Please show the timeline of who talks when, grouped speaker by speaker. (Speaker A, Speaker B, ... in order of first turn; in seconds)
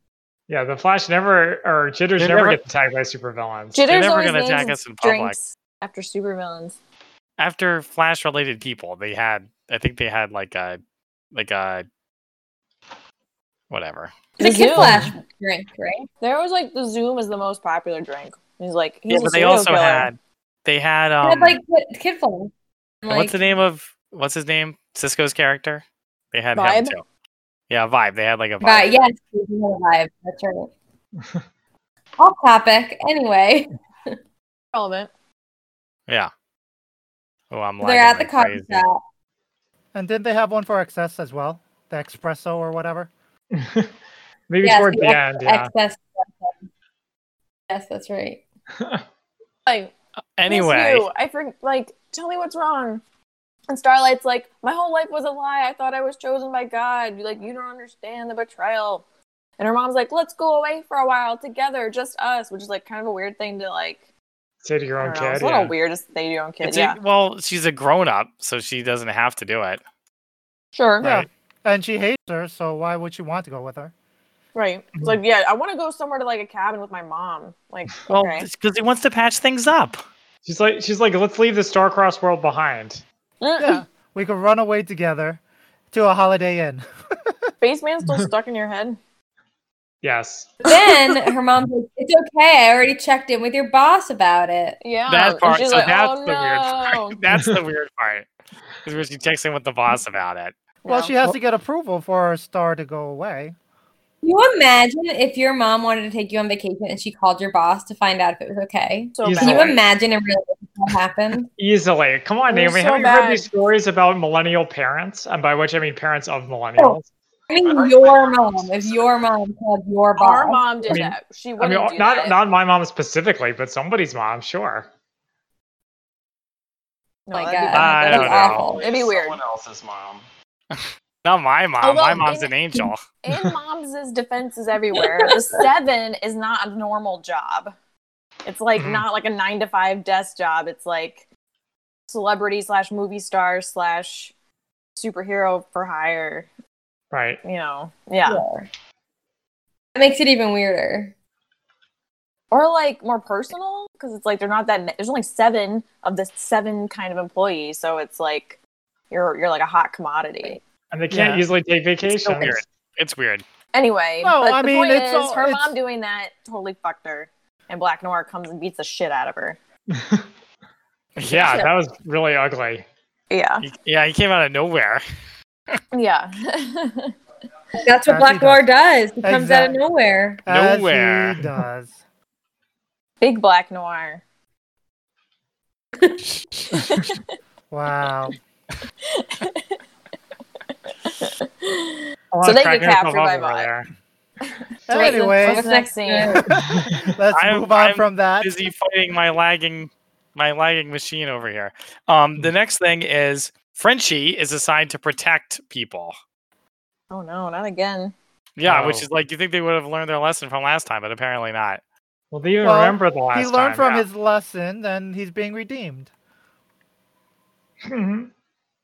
Speaker A: 0.5-3.9, 43.5-43.9, 44.5-45.7, 48.8-49.0, 64.6-65.7, 80.4-83.0, 90.0-90.6, 109.2-109.8, 111.6-117.1, 120.9-124.9, 138.8-139.0, 147.1-147.4, 160.9-162.6, 169.9-170.3, 171.3-172.9, 192.3-193.9, 196.6-197.0, 208.6-209.1, 212.3-214.0, 217.8-218.3
Speaker B: 2.2-2.6, 3.9-5.3, 7.4-10.8, 11.3-11.8, 13.7-14.1, 19.1-21.6, 23.1-27.0, 27.7-28.9, 37.5-38.8, 50.4-51.1, 66.6-69.8, 78.1-80.0, 95.1-98.3, 98.8-100.5, 127.7-128.6, 130.7-133.0, 162.0-163.4, 171.2-171.6, 173.6-175.0, 180.5-181.5, 197.3-206.2, 208.6-211.8
Speaker C: 3.7-6.8, 14.4-15.1, 16.2-20.1, 26.5-26.9, 34.7-35.1, 49.6-49.9, 50.5-53.0, 53.7-59.0, 59.6-64.0, 65.0-67.0, 70.7-71.2, 74.5-78.5, 83.4-83.8, 87.6-89.0, 94.8-97.2, 100.8-101.3, 109.1-109.8, 112.5-113.5, 120.2-122.3, 127.3-129.4, 131.8-132.5, 133.2-137.7, 138.4-141.2, 142.1-144.3, 144.9-146.5, 147.4-148.4, 152.5-158.6, 159.1-160.6, 163.7-169.6, 173.3-173.7, 175.9-177.2, 183.2-184.2, 186.8-187.2, 189.0-189.8, 191.0-193.7, 194.4-196.5, 207.1-208.1
Speaker D: 14.4-16.1, 21.2-23.4, 28.6-30.7, 32.2-34.1, 37.8-39.0, 44.6-46.6, 47.7-48.4, 90.6-94.8, 104.2-111.5, 117.5-121.0, 127.3-128.8, 135.0-135.3, 148.2-148.7, 149.9-151.1, 171.3-171.7, 177.8-180.4, 186.0-186.2, 194.9-196.5
Speaker E: 39.9-43.1, 71.0-73.9, 83.6-85.4, 85.9-87.3, 100.9-103.5, 161.1-161.4, 164.2-165.8, 178.1-178.6, 179.2-179.8, 180.4-182.0, 187.7-188.3, 194.9-195.8, 196.5-198.5, 212.6-216.1
Speaker F: 117.6-119.3, 128.6-130.2